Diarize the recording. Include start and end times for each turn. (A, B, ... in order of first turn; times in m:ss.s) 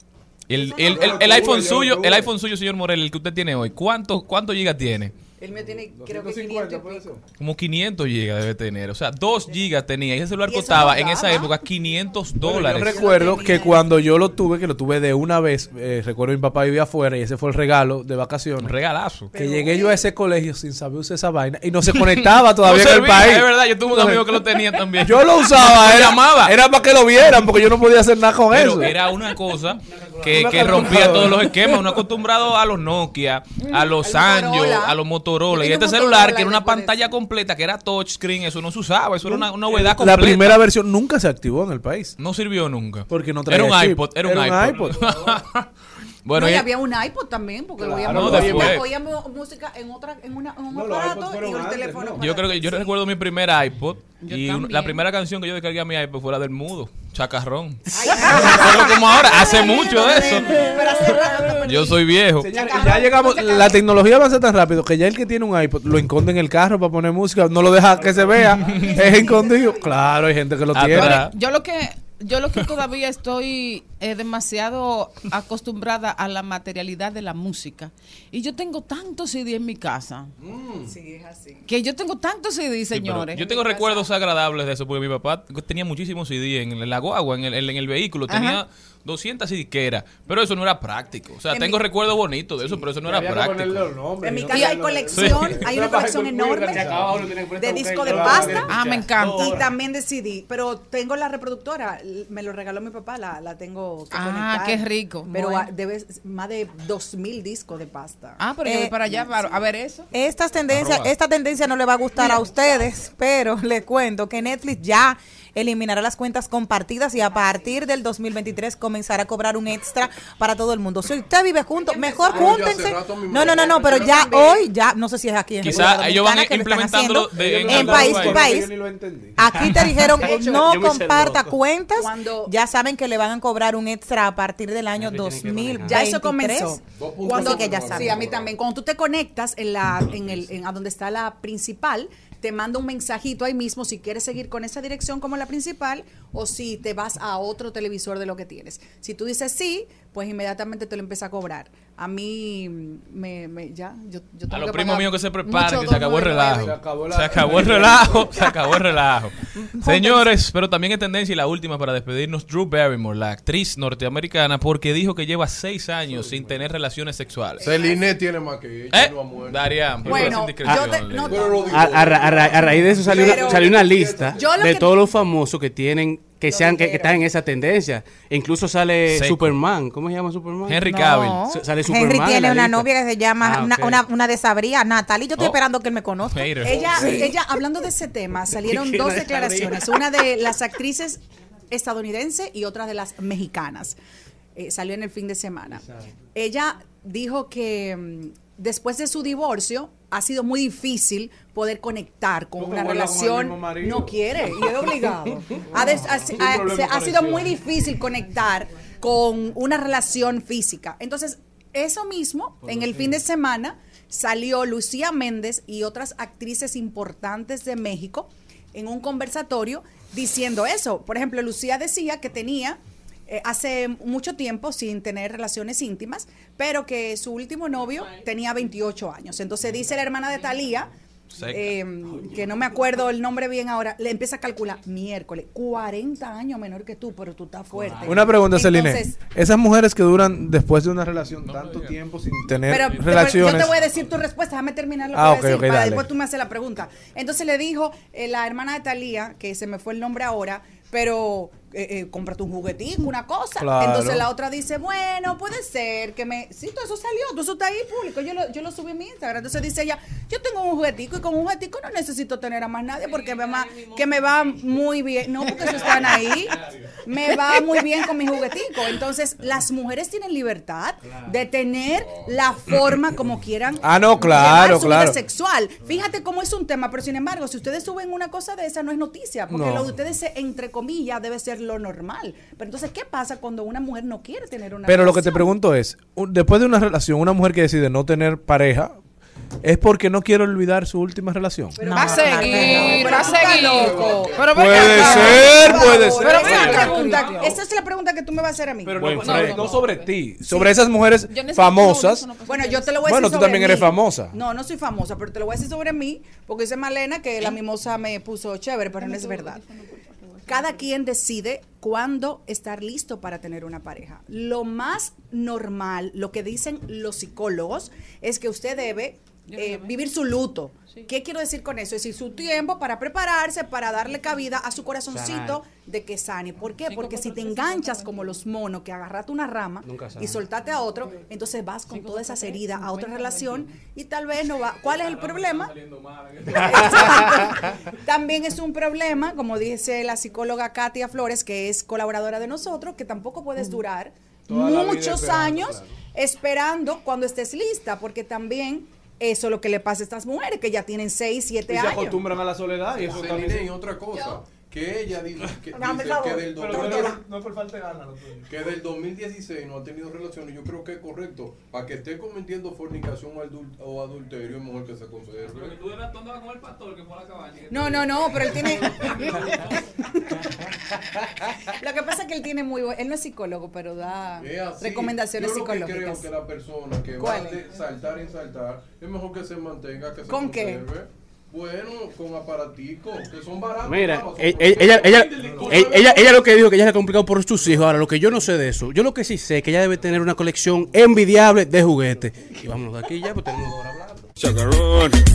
0:00.5-0:05.1 A
0:00.5-0:01.5 B
0:00.8-0:02.2 C
0:05.4-0:07.2 B
0:05.9-0:07.2 C
0:07.4-0:13.1 A
0:10.4-0:11.6 B
0:12.4-0:18.7 C
0:12.5-0:14.1 B
0:18.6-0:19.3 A
0:19.3-0:20.0 B
0:19.3-0:24.4 C
0:21.9-0:26.6 A
0:25.0-0:29.0 C
0:28.5-0:40.6 A
0:30.2-0:31.8 C
0:33.6-0:35.0 B
0:35.5-0:37.1 B
0:39.6-0:42.2 C
0:42.2-0:45.7 A
0:43.1-0:45.4 C
0:46.2-0:46.7 A
0:46.3-0:53.0 B
0:47.8-0:48.8 C
0:48.1-0:48.9 A
0:50.7-0:52.2 C
0:52.2-1:00.7 A
0:54.2-0:55.0 D
0:57.9-1:03.8 B
1:01.6-1:02.5 A
1:02.4-1:11.3 C
1:08.0-1:10.3 B
1:10.7-1:11.3 A
1:11.0-1:20.3 D
1:20.4-1:20.9 E
1:20.9-1:21.6 B
1:21.7-1:24.0 D
1:22.9-1:33.9 A
1:28.3-1:28.6 D
1:31.5-1:31.8 B
1:33.0-1:39.7 C
1:34.2-1:48.4 B
1:35.1-1:35.6 A
1:37.3-1:37.6 F
1:38.5-1:39.6 D
1:44.1-1:45.7 D
1:48.4-1:50.1 D
1:48.6-1:49.0 G
1:49.1-1:49.5 B
1:50.1-2:08.7 G
1:50.7-1:51.1 A
2:01.8-2:02.9 B
2:02.3-2:04.3 E
2:03.4-2:04.7 B
2:05.6-2:08.5 A
2:07.4-2:09.7 C
2:09.4-2:18.2 G
2:09.6-2:11.5 F
2:10.0-2:10.8 B
2:12.0-2:12.6 B
2:15.0-2:16.1 F
2:15.8-2:35.1 B
2:16.9-2:18.5 E
2:34.5-2:47.7 A
2:35.5-2:36.7 D
2:35.9-2:38.5 C
2:39.9-2:40.2 B
2:46.1-2:46.5 C
2:47.6-2:48.1 B
2:47.6-2:49.7 E
2:48.9-2:51.5 A
2:50.0-2:52.5 B
2:51.3-2:54.6 E
2:51.7-3:00.9 F
2:53.1-2:53.7 B
2:54.3-2:55.0 B
2:56.5-2:57.2 B
2:59.1-2:59.4 A
3:00.7-3:01.4 A
3:00.9-3:07.4 G
3:01.5-3:02.9 F
3:03.4-3:04.0 F
3:06.2-3:06.8 A
3:06.6-3:14.0 B
3:06.8-3:07.2 E
3:08.7-3:09.7 F
3:14.6-3:50.9 B
3:22.6-3:27.6 C
3:32.6-3:33.2 C
3:51.3-3:51.8 A
3:51.4-3:59.2 B
3:57.9-4:03.8 C
4:01.4-4:02.0 A
4:02.7-4:45.6 B
4:05.1-4:06.1 C
4:13.6-4:14.3 C
4:23.2-4:23.8 D
4:32.0-4:32.7 E
4:33.3-4:34.7 E
4:33.8-4:35.2 C
4:39.5-4:39.8 C
4:44.8-4:49.0 C
4:49.6-4:51.8 C
4:51.8-4:59.8 B
4:51.8-4:53.1 G
4:51.9-4:57.5 D
4:53.3-4:54.8 E
4:54.5-4:57.5 C
4:58.8-5:02.3 C
4:59.0-4:59.6 F
4:59.2-5:00.1 D
5:00.4-5:00.8 B
5:01.3-5:03.0 D
5:02.4-5:09.6 B
5:03.0-5:04.4 C
5:09.0-5:09.5 D
5:10.5-5:35.8 B
5:19.5-5:19.9 D
5:25.1-5:25.6 F
5:26.9-5:28.0 D
5:29.8-5:30.4 F
5:31.9-5:33.6 D
5:36.5-5:52.3 B
5:44.5-5:45.9 C
5:51.7-5:53.8 C
5:53.0-5:57.2 E
5:55.8-5:57.2 B
5:56.6-5:58.5 C
5:58.5-6:05.8 E
6:06.0-6:06.7 A
6:07.7-6:10.5 B
6:11.6-6:16.3 B
6:14.4-6:26.4 E
6:17.2-6:17.6 B
6:20.3-6:20.9 B
6:23.9-6:34.3 F